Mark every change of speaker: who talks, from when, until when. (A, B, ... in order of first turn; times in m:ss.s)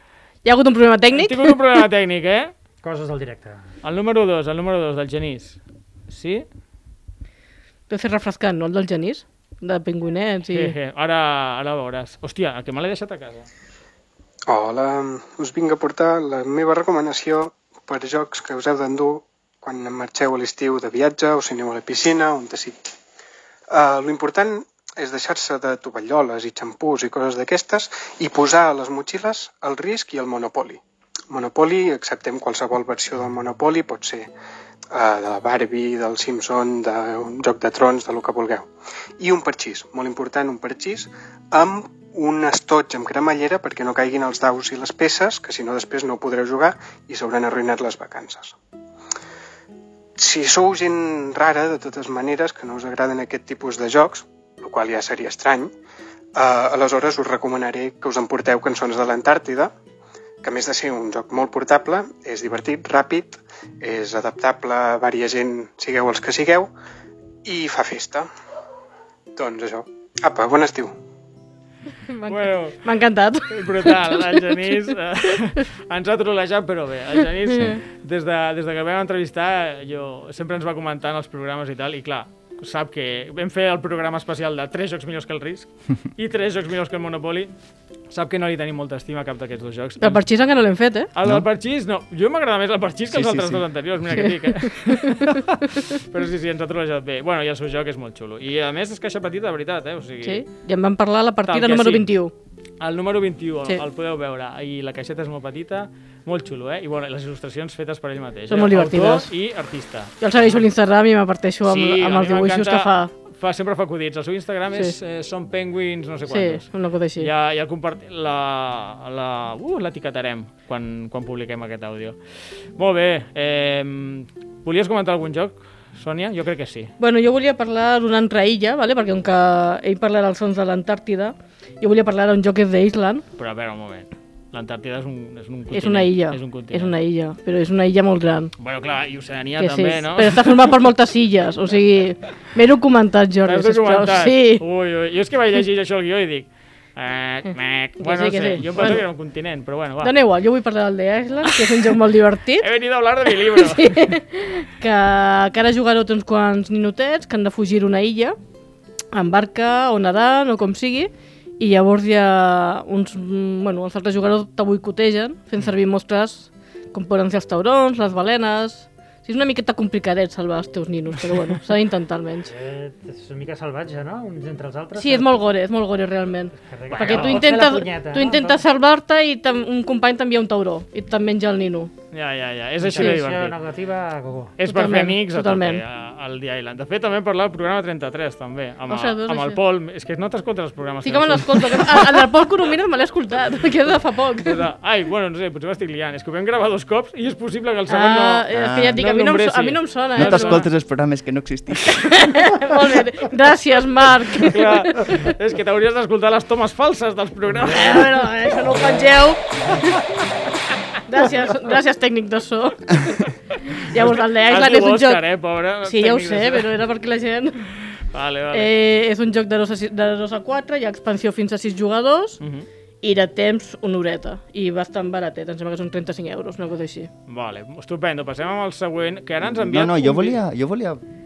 0:00.4-0:01.6 A
0:01.1-0:02.5 B
0:02.8-0:03.7 C
0:03.8-0:06.4 B
0:07.9-0:10.8 A
0:10.5-0:13.5 B
0:14.5-0:22.9 D
0:23.7-0:34.3 D
0:34.9-0:38.7 D
0:39.2-0:48.6 D
0:50.2-0:55.7 D
0:56.4-0:59.7 D
1:00.4-1:06.7 D
1:07.4-1:08.3 D
1:09.4-1:11.0 D
1:12.1-1:14.6 A
1:12.3-1:12.8 B
1:13.5-1:27.5 B
1:17.5-1:17.8 A
1:28.1-1:30.2 B
1:30.0-1:31.1 A
1:31.1-1:40.4 B
1:33.1-1:33.7 E
1:34.2-1:35.3 A
1:40.2-1:42.3 A
1:41.5-1:42.1 B
1:42.8-1:50.6 B
1:48.5-1:49.3 A
1:50.2-1:53.1 A
1:51.6-2:02.2 B
1:56.3-1:57.3 A
2:02.8-2:06.9 B
2:07.0-2:13.2 A
2:13.4-2:16.9 B
2:15.7-2:18.5 A
2:18.6-2:20.7 B
2:19.6-2:24.6 A
2:23.4-2:30.1 B
2:28.0-2:29.1 A
2:30.0-2:32.7 A
2:31.5-2:31.9 B
2:32.6-2:34.2 B
2:33.3-2:38.4 A
2:39.1-2:52.5 A
2:52.5-2:55.5 C
2:55.0-3:01.9 A
2:56.5-2:58.6 C
2:56.9-2:57.5 B
3:02.1-3:03.6 B
3:02.8-3:04.6 C
3:03.0-3:03.2 A
3:04.6-3:12.2 B
3:04.6-3:05.8 A
3:08.9-3:09.6 A
3:11.0-3:14.6 A
3:14.4-3:20.7 B
3:17.9-3:20.7 A
3:18.5-3:19.0 E
3:20.2-3:22.4 E
3:22.0-3:25.2 A
3:24.4-3:28.0 B
3:27.6-3:28.0 C
3:27.7-3:30.0 A
3:28.6-3:29.1 C
3:31.1-3:35.3 A
3:34.0-3:36.7 B
3:35.8-3:37.7 A
3:38.1-3:38.7 B
3:38.5-3:42.4 A
3:42.4-3:42.7 B
3:43.0-3:47.1 A
3:47.3-3:50.4 B
3:49.4-3:51.0 E